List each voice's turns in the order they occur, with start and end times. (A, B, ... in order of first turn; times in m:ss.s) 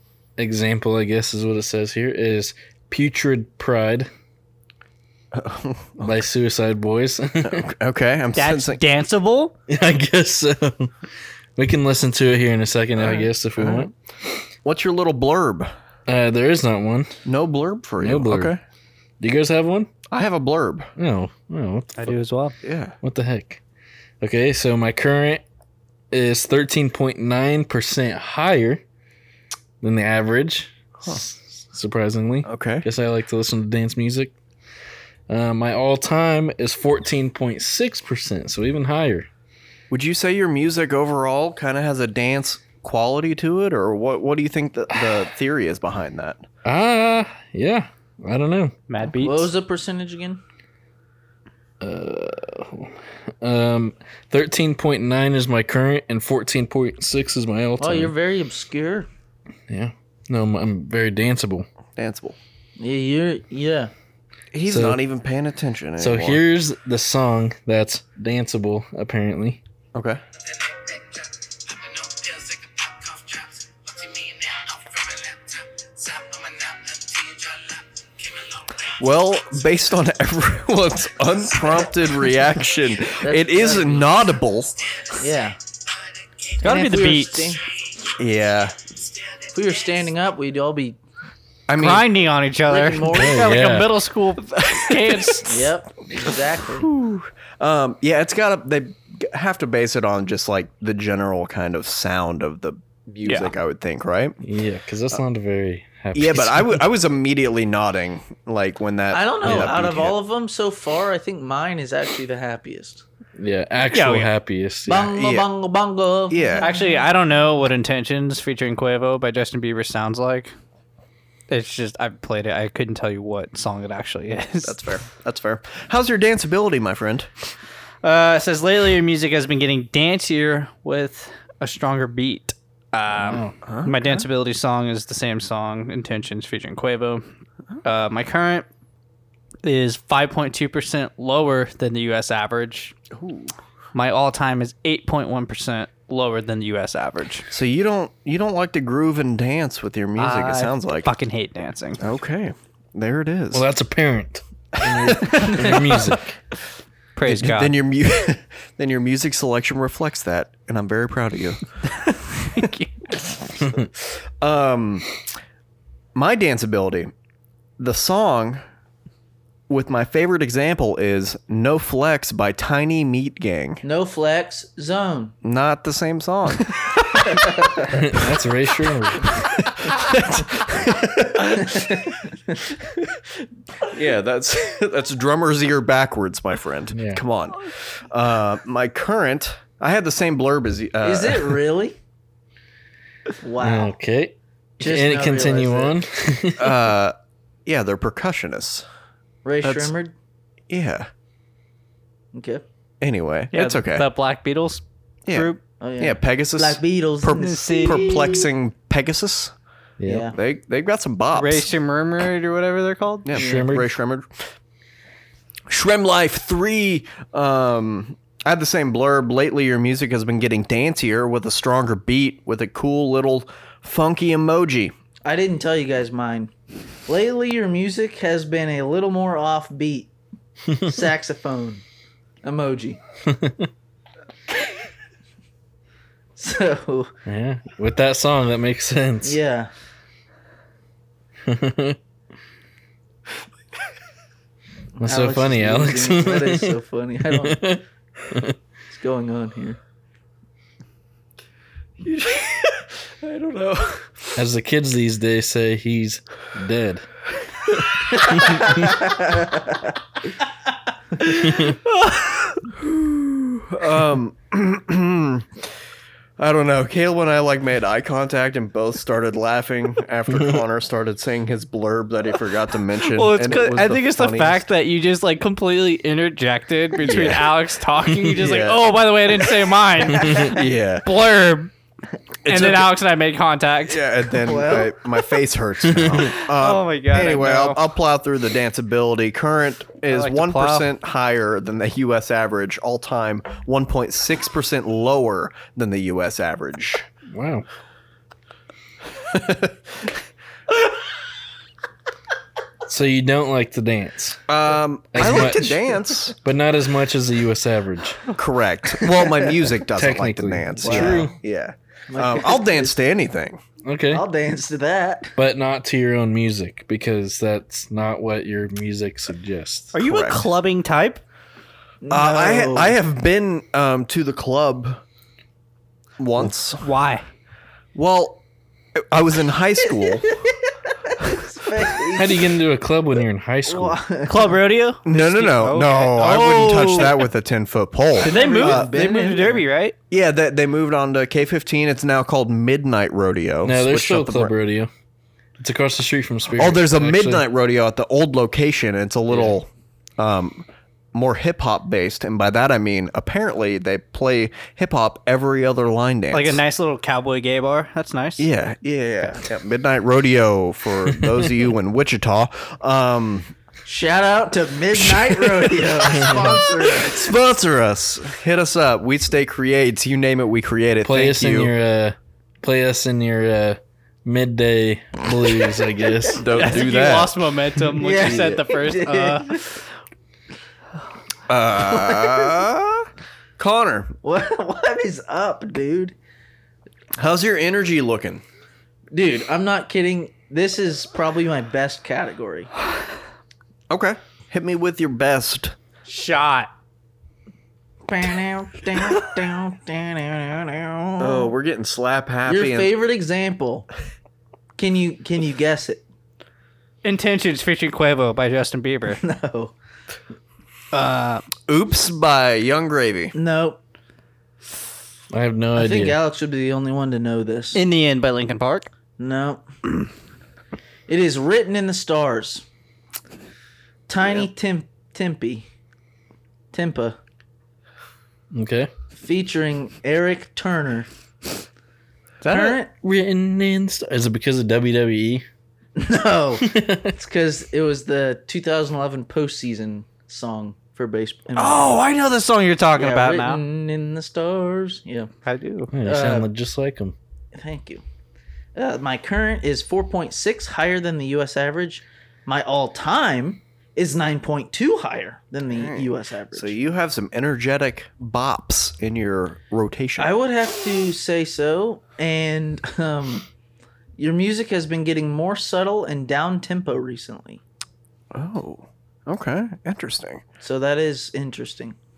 0:00.4-0:04.1 A
0:05.3-0:06.2 B
0:06.0-0:07.6 A
0:07.4-0:08.8 B
0:08.3-0:09.5 C
0:09.7-0:10.9 A
0:11.6-0:13.9 A
0:13.0-0:13.9 B
0:14.6-0:15.7 B
0:16.1-0:17.2 A
0:17.2-0:18.6 B
0:18.0-0:18.6 A
0:19.2-0:19.9 A
0:20.1-0:20.9 B
0:21.0-0:22.2 A
0:22.0-0:22.5 C
0:22.6-0:22.9 B
0:23.0-0:23.6 A
0:24.2-0:25.4 A
0:26.1-0:28.8 A
0:29.8-0:34.3 A
0:32.4-0:32.9 B
0:35.3-0:39.3 A
0:39.9-0:46.4 B
0:46.6-0:48.8 A
0:48.9-0:49.5 C
0:49.1-0:50.4 D
0:51.8-0:58.1 A
0:57.8-0:59.1 D
0:59.7-1:01.7 A
1:02.0-1:02.4 B
1:02.8-1:03.9 D
1:04.5-1:06.4 B
1:04.6-1:05.0 A
1:06.0-1:09.6 A
1:09.9-1:10.2 B
1:12.3-1:12.6 C
1:18.9-1:25.1 B
1:23.2-1:24.1 D
1:25.2-1:25.6 D
1:26.6-1:27.6 C
1:26.6-1:27.6 D
1:28.2-1:28.8 B
1:29.5-1:31.0 D
1:31.7-1:32.0 B
1:31.7-1:35.7 C
1:32.7-1:33.6 D
1:33.1-1:33.9 A
1:34.6-1:35.4 B
1:35.4-1:36.9 D
1:36.8-1:44.4 B
1:43.2-1:43.5 C
1:44.4-1:46.8 A
1:46.1-1:50.1 B
1:49.1-1:53.0 D
1:49.4-1:49.7 A
1:53.4-1:55.1 A
1:53.9-1:54.3 C
1:54.9-1:57.0 D
1:55.1-1:55.5 B
1:56.3-1:56.7 B
1:56.6-2:00.5 C
2:01.5-2:04.9 C
2:04.6-2:07.3 B
2:08.0-2:17.2 C
2:13.1-2:13.5 A
2:13.6-2:14.2 B
2:17.8-2:18.6 C
2:19.6-2:23.0 C
2:23.1-2:23.5 B
2:23.9-2:27.4 C
2:27.5-2:31.1 B
2:30.2-2:32.0 C
2:32.0-2:33.6 B
2:33.5-2:36.4 A
2:34.8-2:36.0 B
2:35.2-2:36.0 C
2:37.2-2:37.7 C
2:37.2-2:41.6 B
2:41.8-2:43.0 C
2:43.4-2:45.2 B
2:43.6-2:43.8 A
2:46.1-2:47.1 B
2:47.8-2:48.6 B
2:49.7-2:53.8 B
2:53.8-2:55.3 D
2:55.4-2:57.5 B
2:57.3-2:57.9 D
2:57.9-2:59.3 A
2:59.2-3:02.2 B
3:01.7-3:02.2 D
3:02.8-3:03.2 B
3:03.8-3:11.6 B
3:06.9-3:07.2 A
3:11.0-3:12.0 D
3:13.4-3:13.9 D
3:13.6-3:16.9 A
3:14.8-3:16.0 D
3:16.6-3:17.1 B
3:17.6-3:18.8 B
3:19.4-3:20.1 D
3:19.6-3:19.9 B
3:20.7-3:21.1 B
3:22.3-3:22.6 D
3:23.0-3:24.0 B
3:23.5-3:25.6 C
3:25.3-3:29.5 B
3:25.8-3:28.4 D
3:27.3-3:28.4 C
3:30.0-3:30.3 A
3:30.0-3:30.4 D
3:30.3-3:31.7 B
3:31.3-3:33.4 C
3:33.2-3:34.3 B
3:33.3-3:33.9 A
3:33.4-3:33.7 D
3:35.7-3:44.9 B
3:45.2-3:46.5 D
3:47.1-3:50.1 D
3:50.8-3:51.8 D
3:52.4-3:53.0 D
3:53.2-3:53.7 A
3:56.4-3:57.1 D
3:57.2-3:59.4 A
3:59.2-3:59.7 D
4:01.4-4:02.0 A
4:05.0-4:07.6 D
4:05.0-4:06.7 A
4:07.3-4:08.6 A
4:08.9-4:09.8 D
4:12.0-4:14.4 B
4:14.4-4:17.0 A
4:18.3-4:18.9 A
4:18.4-4:19.1 D
4:21.4-4:21.8 A
4:22.6-4:25.5 B
4:26.4-4:34.6 B
4:30.3-4:30.6 A
4:33.0-4:41.7 C
4:37.0-4:37.5 B
4:38.3-4:38.9 B
4:39.4-4:41.0 B
4:40.2-4:40.5 A
4:42.4-4:42.9 B
4:42.4-4:44.0 C
4:43.9-4:57.0 B
4:44.4-4:45.0 D
4:45.8-4:46.3 A
4:46.2-4:47.8 C
4:50.1-4:50.9 C
4:57.3-4:57.6 A
4:59.2-5:00.1 B
5:02.9-5:04.4 A
5:04.5-5:06.3 B
5:05.1-5:08.3 A
5:08.3-5:13.6 B
5:09.9-5:11.4 A
5:10.8-5:11.3 D
5:12.1-5:13.0 D
5:13.8-5:14.2 A
5:14.1-5:15.4 D
5:15.4-5:19.9 A
5:19.9-5:21.2 C
5:20.0-5:20.4 B
5:22.0-5:23.0 D
5:22.1-5:25.0 B
5:26.2-5:26.9 B
5:26.8-5:27.2 C
5:27.9-5:28.4 B
5:29.0-5:30.4 B
5:29.9-5:32.5 D
5:32.1-5:34.0 A
5:33.6-5:34.6 D
5:34.3-5:37.3 C
5:35.0-5:38.9 B
5:38.2-5:39.9 C
5:38.2-5:39.6 D
5:40.1-5:44.5 B
5:43.6-5:44.9 A
5:45.6-5:47.4 A
5:46.6-5:56.6 B
5:49.3-5:49.6 A
5:56.3-5:58.5 C
5:58.4-6:03.5 B
6:03.8-6:07.3 D
6:05.0-6:11.7 B
6:06.1-6:06.5 A
6:11.0-6:16.5 A
6:16.4-6:17.3 B
6:16.5-6:19.6 C
6:18.0-6:19.8 D
6:21.5-6:24.1 B
6:21.8-6:22.6 D
6:24.2-6:26.2 D
6:27.2-6:28.4 B
6:29.1-6:32.7 D
6:33.9-6:35.7 B
6:36.1-6:36.7 C
6:38.1-6:41.5 D
6:41.2-6:42.9 B
6:42.4-6:43.9 D
6:44.8-6:46.0 D
6:47.0-6:49.2 C
6:49.2-6:49.7 D
6:50.9-6:51.4 C
6:51.7-6:53.3 B
6:53.3-6:53.8 D
6:55.3-6:56.2 A
6:55.7-6:57.8 D
6:57.7-6:58.9 C
6:59.2-6:59.6 D
7:01.1-7:02.6 D
7:04.1-7:05.6 D
7:06.7-7:07.2 D
7:08.5-7:08.9 A
7:09.1-7:11.1 D
7:12.4-7:12.8 C
7:12.4-7:12.9 D
7:13.0-7:15.4 A
7:16.0-7:22.0 D
7:16.6-7:17.1 A
7:21.6-7:23.6 C
7:23.0-7:25.3 D
7:25.4-7:25.9 C
7:25.9-7:27.1 A
7:26.0-7:26.5 D
7:27.5-7:28.0 D
7:28.7-7:36.7 D
7:35.7-7:40.3 B
7:40.2-7:43.5 D
7:44.2-7:47.6 D
7:48.3-7:50.4 B
7:50.6-7:52.0 D